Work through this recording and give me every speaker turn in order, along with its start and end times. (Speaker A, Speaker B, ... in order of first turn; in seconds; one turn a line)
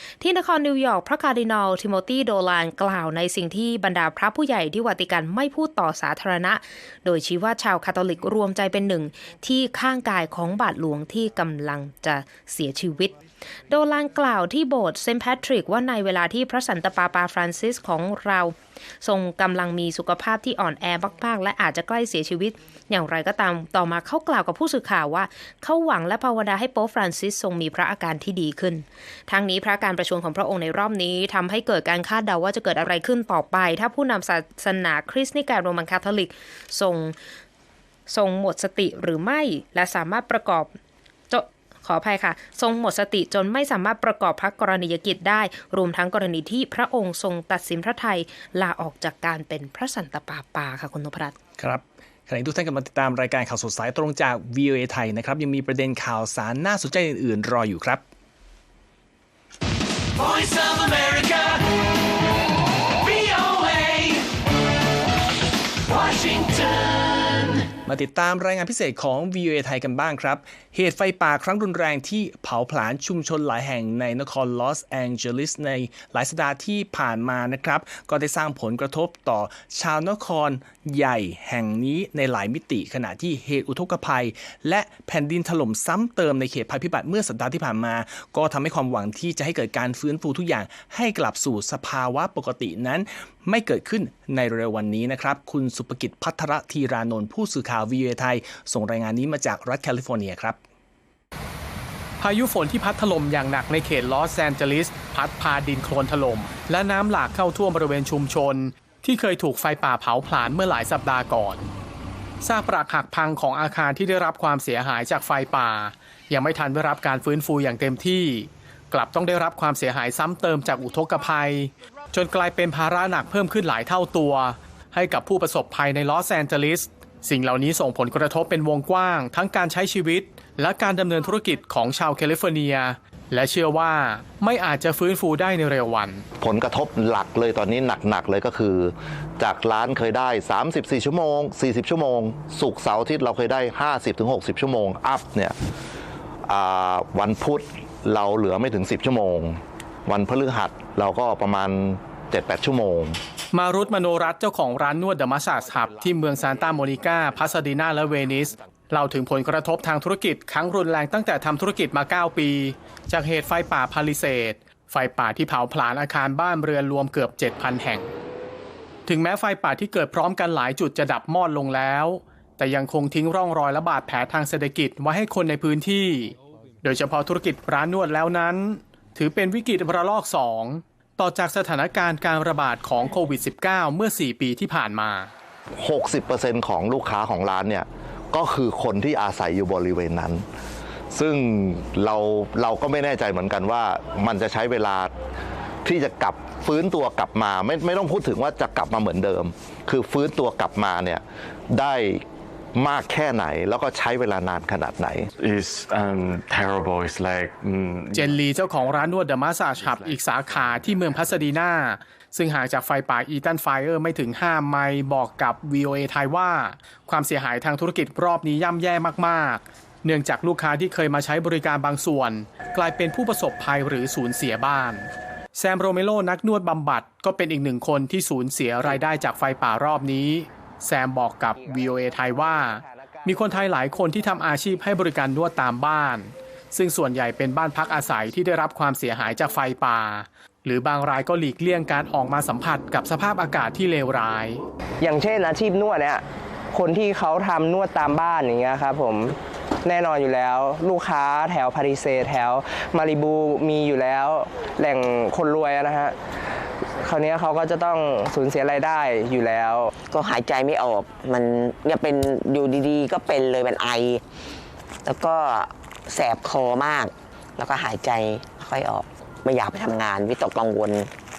Speaker A: 0.2-13.1
Speaker A: 13.7-37.1
Speaker A: 38.1-40.7
Speaker A: 41.3-51.3
Speaker B: 51.6-58.0
Speaker B: 60.2-61.6
Speaker B: 63.0-64.2
Speaker B: 65.9-66.8
Speaker B: 67.8-100.6
Speaker C: 102.2-111.7
Speaker C: 112.4-136.2
Speaker D: 136.4-145.5
Speaker D: 146.5-153.2
Speaker C: 153.5-168.1
Speaker C: 169.1-185.3
Speaker D: 185.8-190.4
Speaker D: 191.1-195.1
Speaker D: 195.8-205.3
Speaker E: 205.3-208.5
Speaker C: 208.1-244.6
Speaker E: 209.8-211.3
Speaker F: 231.6-233.6
Speaker F: 245.0-256.1
Speaker F: 257.0-259.9
Speaker G: 260.1-264.2
Speaker G: 265.0-271.1